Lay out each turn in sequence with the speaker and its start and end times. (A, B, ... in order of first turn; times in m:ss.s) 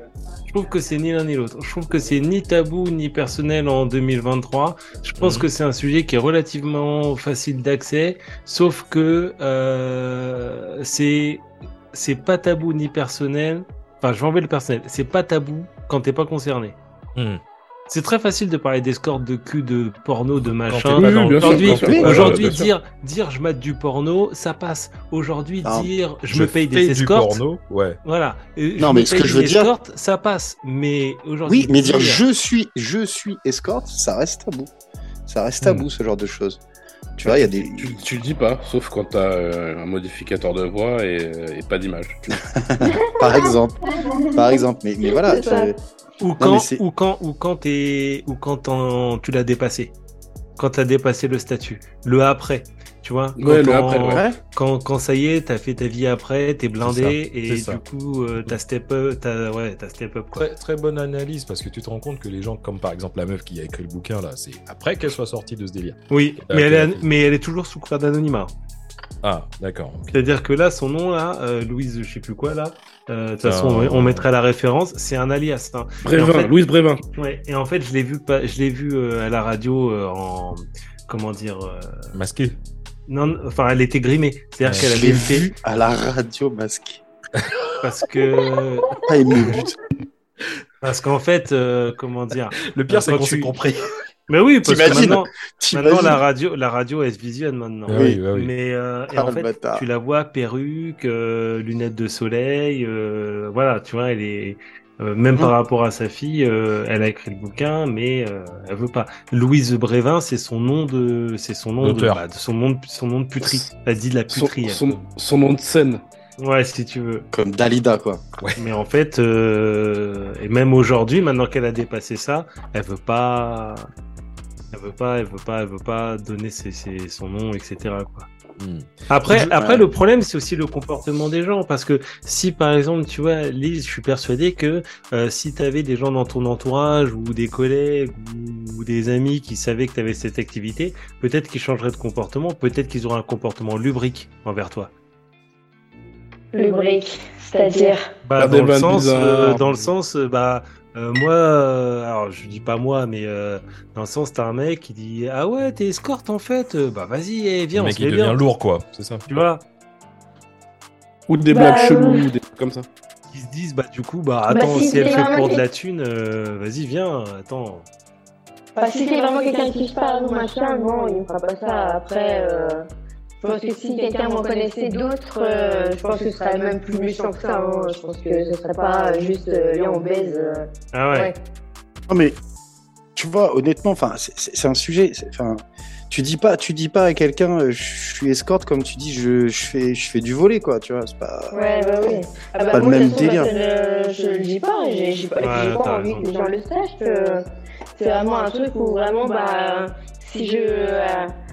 0:00.5-0:16.8 A
0:05.2-0:05.5 B
0:17.1-0:17.4 B
0:17.9-0:27.4 A
0:20.6-0:22.6 B
0:20.9-0:22.7 C
0:25.6-0:25.9 D
0:26.3-0:28.0 B
0:28.0-0:32.2 A
0:28.8-0:29.7 D
0:31.4-0:34.7 D
0:35.3-0:36.6 D
0:37.2-0:38.0 D
0:37.5-0:42.4 C
0:42.4-0:45.7 D
0:42.8-0:45.7 E
0:46.2-0:49.9 A
0:46.4-0:46.8 D
0:50.6-1:00.4 A
0:53.4-0:54.2 C
0:54.1-0:54.4 D
0:56.8-0:57.8 B
1:00.4-1:07.0 B
1:06.1-1:08.5 A
1:09.2-1:10.2 B
1:10.1-1:16.5 A
1:13.4-1:14.3 B
1:16.0-1:17.0 C
1:17.2-1:22.1 A
1:22.1-1:22.6 B
1:23.1-1:25.5 A
1:24.6-1:25.3 B
1:24.8-1:27.0 D
1:27.8-1:29.1 A
1:29.0-1:29.8 D
1:30.8-1:33.5 A
1:32.6-1:33.9 B
1:34.3-1:54.8 A
1:34.6-1:36.2 D
1:37.9-1:38.5 B
1:37.9-1:38.2 D
1:39.1-1:39.8 D
1:51.8-1:52.2 B
1:53.4-1:53.7 C
1:54.3-1:56.0 C
1:56.4-1:57.2 A
1:57.3-1:58.2 D
1:58.6-2:03.9 A
2:04.7-2:08.3 A
2:08.6-2:09.5 B
2:09.1-2:24.9 A
2:09.6-2:09.8 D
2:26.5-2:28.1 E
2:28.2-2:38.4 A
2:28.4-2:29.8 C
2:37.7-2:39.2 B
2:39.3-2:39.6 A
2:41.3-2:42.9 C
2:41.5-2:42.3 E
2:43.3-2:47.8 A
2:44.5-2:45.6 E
2:48.8-2:52.8 E
2:53.4-3:01.4 E
3:00.9-3:01.3 A
3:02.1-3:02.4 D
3:03.2-3:12.2 D
3:11.5-3:17.4 E
3:12.7-3:13.5 D
3:15.4-3:16.2 A
3:18.0-3:21.3 E